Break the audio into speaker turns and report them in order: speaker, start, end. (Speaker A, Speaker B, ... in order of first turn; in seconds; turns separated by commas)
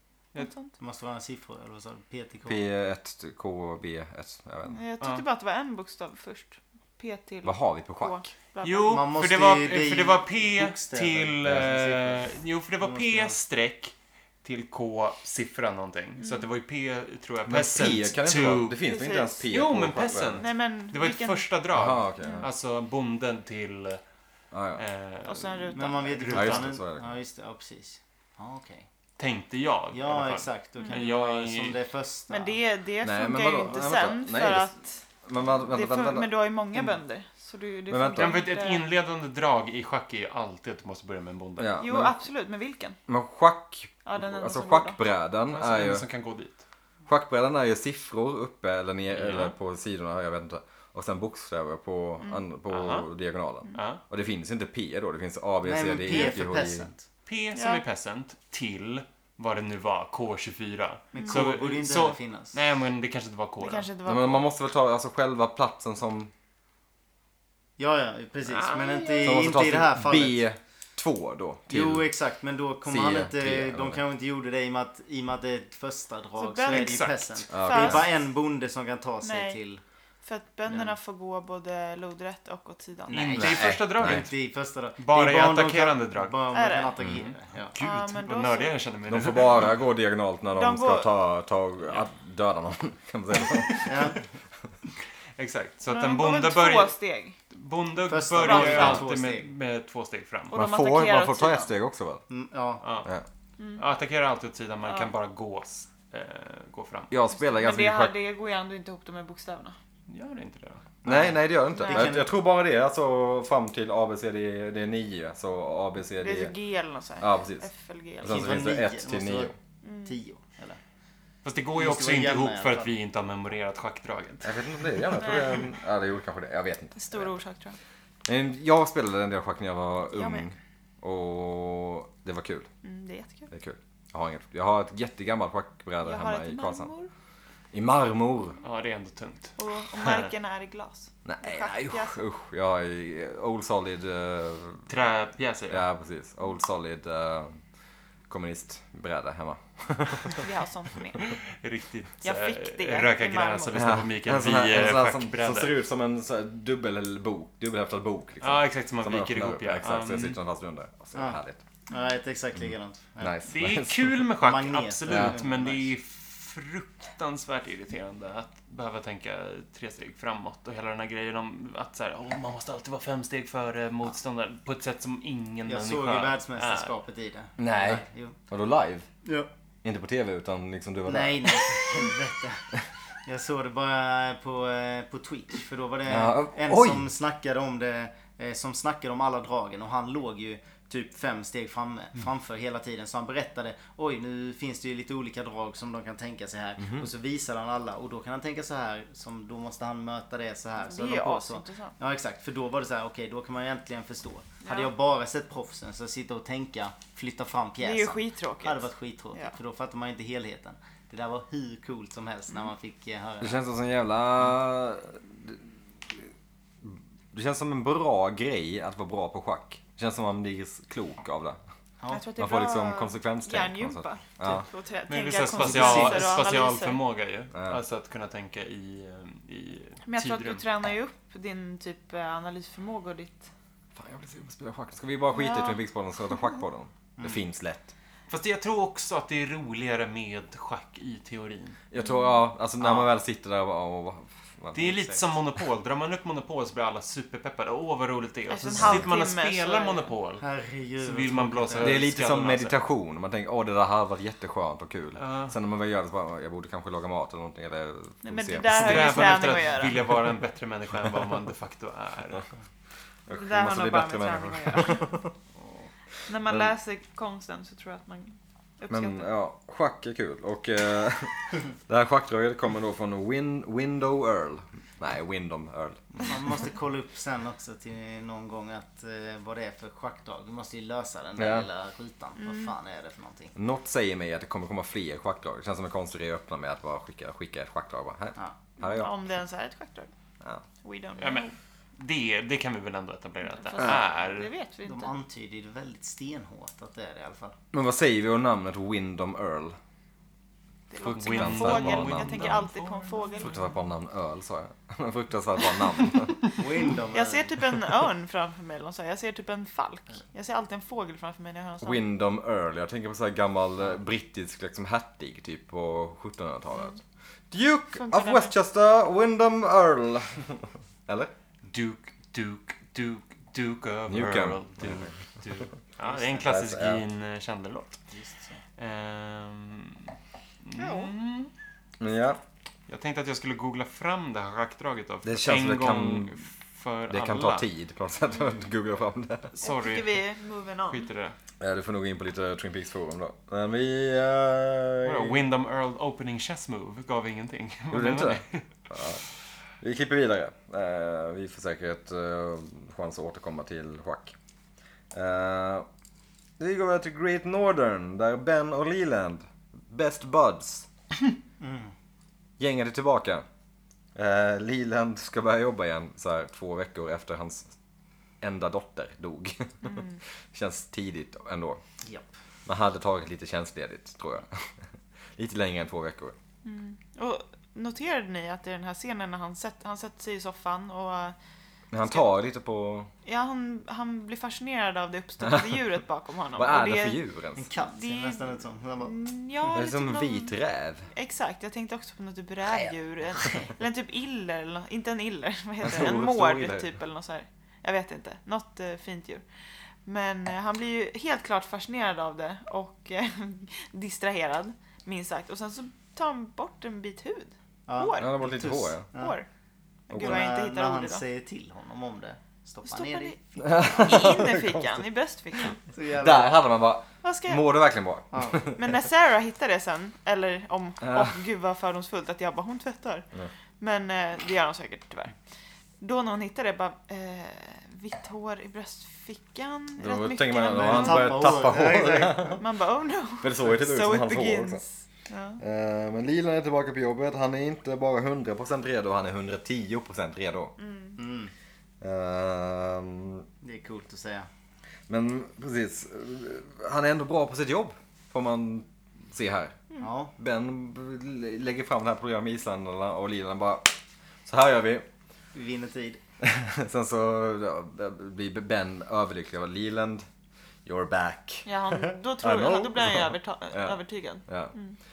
Speaker A: 0.3-0.7, Speaker B: 0.8-2.6, Speaker C: 2.5-4.8, Speaker A: 4.7-9.0, Speaker C: 7.4-8.2, Speaker D: 8.6-18.8, Speaker B: 8.9-12.3, Speaker B: 12.8-13.4, Speaker A: 16.2-16.5, Speaker C: 17.5-20.4, Speaker A: 18.8-19.4, Speaker D: 19.5-24.0, Speaker A: 20.4-21.4, Speaker C: 21.7-22.5, Speaker A: 22.2-22.5, Speaker C: 24.5-24.8, Speaker D: 24.8-26.7, Speaker A: 25.2-26.2, Speaker B: 25.7-28.9, Speaker C: 26.3-27.2, Speaker D: 29.2-31.8, Speaker B: 29.9-32.6, Speaker A: 32.3-38.8, Speaker C: 33.0-34.7, Speaker C: 35.2-36.3, Speaker C: 37.9-38.4, Speaker D: 38.1-41.7, Speaker C: 41.6-42.1, Speaker A: 41.8-43.0, Speaker C: 43.1-46.0, Speaker A: 44.0-45.0, Speaker D: 45.5-46.6, Speaker C: 47.1-56.9, Speaker D: 49.1-49.5, Speaker D: 52.7-53.1, Speaker D: 53.7-54.0, Speaker B: 55.6-57.0, Speaker D: 57.2-63.9, Speaker A: 57.5-57.8, Speaker B: 61.1-62.6, Speaker A: 61.1-61.5, Speaker A: 63.6-64.5, Speaker C: 64.0-66.3, Speaker B: 67.8-70.4, Speaker D: 68.4-69.4, Speaker C: 69.2-72.1, Speaker B: 71.7-79.8, Speaker C: 72.8-74.0, Speaker A: 76.4-78.0, Speaker D: 76.7-77.4, Speaker C: 77.5-78.1, Speaker A: 79.2-79.6, Speaker A: 80.2-83.4, Speaker B: 80.7-80.9, Speaker B: 83.1-87.7, Speaker D: 83.1-84.3, Speaker C: 83.4-84.3, Speaker D: 85.0-86.4, Speaker A: 86.5-87.0, Speaker D: 87.0-89.7, Speaker A: 87.8-88.8, Speaker C: 89.1-94.1, Speaker A: 90.5-91.1, Speaker B: 93.8-94.2, Speaker D: 95.3-96.9, Speaker A: 95.9-97.4, Speaker D: 97.5-100.6, Speaker B: 98.1-99.5, Speaker A: 98.4-99.0, Speaker A: 100.5-101.7, Speaker C: 100.5-102.2, Speaker B: 102.3-102.8, Speaker D: 102.8-103.1, Speaker A: 103.6-103.8, Speaker D: 103.8-107.1, Speaker C: 107.1-108.1, Speaker A: 107.3-109.8, Speaker D: 110.1-110.8, Speaker B: 111.0-112.3, Speaker C: 111.0-116.5, Speaker A: 111.8-112.1, Speaker A: 116.2-118.8, Speaker C: 117.2-117.7, Speaker C: 118.2-119.5, Speaker B: 118.2-119.5, Speaker A: 119.8-120.2, Speaker B: 120.0-120.8, Speaker D: 121.4-124.6, Speaker B: 121.7-122.9, Speaker C: 124.4-127.4, Speaker A: 125.2-125.5, Speaker A: 126.9-127.8, Speaker C: 128.2-132.7, Speaker A: 130.1-130.5, Speaker A: 132.8-133.5, Speaker C: 133.5-136.9, Speaker A: 136.0-137.1, Speaker C: 137.7-138.6, Speaker D: 138.6-140.3, Speaker A: 139.6-142.2, Speaker C: 141.2-144.9, Speaker D: 144.9-145.8, Speaker C: 145.7-147.6, Speaker C: 148.3-150.4, Speaker A: 150.3-151.4, Speaker D: 151.5-155.7, Speaker A: 152.2-153.9, Speaker C: 153.7-161.6, Speaker D: 158.4-160.4, Speaker B: 161.9-163.3, Speaker C: 163.2-164.2, Speaker D: 163.5-176.9, Speaker B: 164.4-165.9, Speaker C: 165.1-165.4, Speaker B: 175.7-178.3, Speaker C: 177.6-179.1, Speaker C: 179.8-182.0, Speaker B: 181.1-182.6, Speaker B: 183.2-213.6, Speaker C: 186.1-187.1, Speaker C: 196.8-197.1, Speaker A: 200.8-201.9, Speaker A: 204.6-204.9, Speaker A: 207.8-209.5, Speaker C: 213.4-216.3, Speaker C: 216.8-221.6, Speaker B: 222.0-222.3, Speaker A: 222.1-227.0, Speaker C: 222.4-224.7, Speaker D: 225.1-230.6, Speaker B: 225.6-226.4, Speaker C: 227.5-227.8, Speaker A: 230.0-233.5, Speaker C: 233.9-237.9, Speaker A: 235.3-235.8, Speaker D: 238.3-241.8, Speaker C: 241.9-245.4, Speaker A: 242.0-242.4, Speaker B: 242.8-243.1, Speaker D: 244.7-250.4, Speaker A: 248.5-250.1, Speaker C: 248.7-249.1, Speaker B: 250.4-252.0, Speaker D: 251.0-252.8, Speaker C: 251.8-259.5, Speaker D: 255.2-255.5, Speaker A: 258.2-260.0, Speaker D: 258.7-262.4, Speaker C: 263.3-265.3, Speaker A: 263.3-265.2, Speaker A: 266.3-269.3, Speaker C: 266.4-266.7, Speaker C: 268.9-276.0, Speaker B: 276.1-283.5, Speaker C: 281.4-281.7, Speaker A: 282.4-282.7, Speaker C: 283.5-289.1, Speaker A: 288.8-290.1, Speaker A: 290.8-291.5, Speaker D: 291.2-294.5, Speaker A: 293.5-295.1, Speaker B: 294.8-297.5, Speaker C: 297.7-299.8, Speaker A: 300.9-303.5, Speaker C: 301.0-302.6, Speaker D: 301.1-303.6, Speaker C: 303.4-306.5, Speaker B: 306.5-307.6, Speaker A: 307.1-312.0, Speaker C: 311.8-317.0, Speaker C: 317.5-321.3, Speaker A: 317.9-318.5, Speaker D: 321.6-328.0, Speaker C: 324.1-325.1, Speaker B: 326.0-326.5, Speaker C: 326.4-327.0, Speaker B: 328.1-328.6, Speaker D: 328.8-331.5, Speaker A: 330.7-331.1, Speaker C: 332.0-332.4, Speaker D: 332.9-337.7, Speaker C: 335.2-336.4, Speaker C: 337.1-339.5, Speaker D: 339.5-340.2, Speaker A: 339.6-341.1, Speaker D: 340.9-341.4, Speaker C: 341.6-345.4, Speaker D: 345.0-348.6, Speaker C: 347.9-349.2, Speaker C: 349.8-354.3, Speaker C: 355.1-355.9, Speaker C: 356.6-360.9, Speaker B: 361.6-361.9, Speaker C: 362.6-363.4, Speaker C: 364.1-367.7, Speaker C: 368.4-371.8, Speaker A: 369.8-370.2, Speaker C: 372.6-374.7, Speaker C: 375.4-376.3, Speaker A: 376.6-381.4, Speaker C: 381.9-383.1, Speaker A: 383.2-387.2, Speaker C: 385.4-385.8, Speaker C: 386.6-387.7, Speaker B: 387.6-389.2, Speaker A: 387.8-390.5, Speaker C: 389.7-391.1, Speaker A: 391.1-399.4, Speaker C: 395.8-396.9, Speaker A: 400.0-408.3, Speaker B: 407.9-409.4, Speaker C: 408.2-409.1, Speaker A: 409.1-409.4, Speaker A: 410.1-411.2, Speaker C: 410.1-410.4, Speaker B: 410.1-414.1, Speaker A: 412.8-415.8, Speaker C: 413.6-415.0, Speaker B: 415.9-416.6, Speaker C: 416.1-418.8, Speaker A: 417.2-417.6, Speaker B: 418.3-418.7, Speaker A: 418.8-423.3, Speaker C: 421.0-421.4, Speaker A: 423.8-425.3, Speaker A: 426.0-431.4, Speaker C: 430.0-432.6, Speaker B: 430.7-432.6, Speaker A: 432.6-435.6, Speaker C: 433.4-434.8, Speaker C: 435.6-440.7, Speaker A: 440.8-441.2, Speaker B: 441.2-441.5, Speaker C: 442.0-443.5, Speaker B: 443.6-444.5, Speaker C: 445.1-449.8, Speaker B: 450.0-450.3, Speaker C: 450.4-455.1, Speaker B: 455.5-456.2, Speaker C: 456.4-460.2, Speaker C: 460.9-464.7, Speaker A: 461.6-464.9